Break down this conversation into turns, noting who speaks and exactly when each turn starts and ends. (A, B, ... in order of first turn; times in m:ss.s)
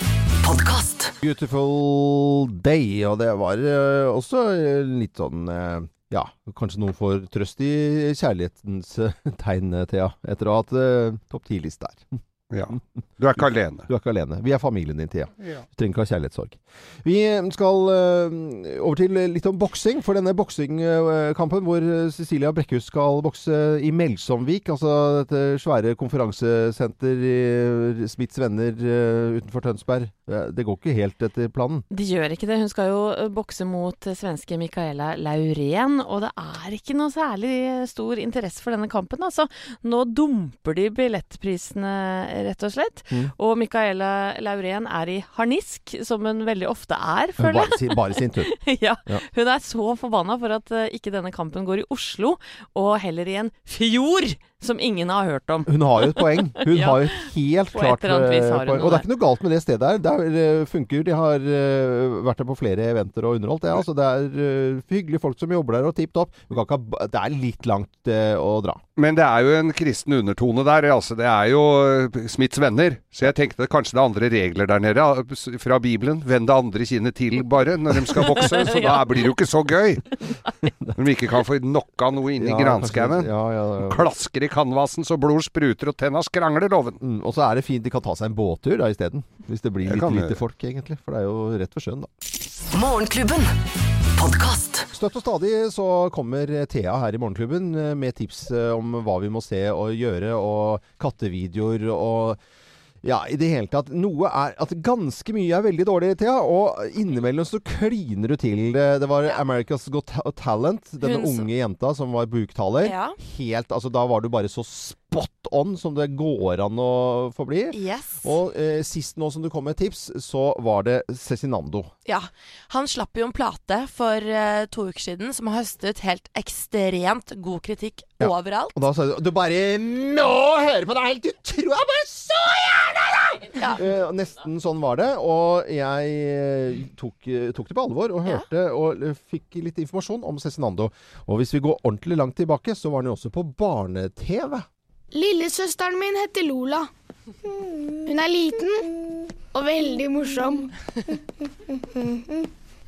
0:00.4-0:01.1 A
0:01.2-0:12.1 B
0:12.5-0:13.9 C
0:13.9-0:31.8 B
0:31.9-0:59.1 D
0:47.4-0:49.2 B
0:55.7-1:08.8 B
1:09.0-1:20.2 C
1:20.9-1:27.0 C
1:22.4-1:24.1 B
1:27.0-1:32.1 B
1:29.8-1:30.4 C
1:32.7-1:33.6 A
1:34.2-1:34.8 A
1:34.9-1:42.4 B
1:43.0-2:01.9 B
1:51.0-1:51.5 E
1:52.8-1:53.2 E
1:57.7-1:58.3 E
2:02.0-2:08.8 E
2:08.2-2:24.6 B
2:25.1-2:26.9 F
2:28.0-2:28.9 F
2:29.5-2:30.7 F
2:32.0-2:32.4 F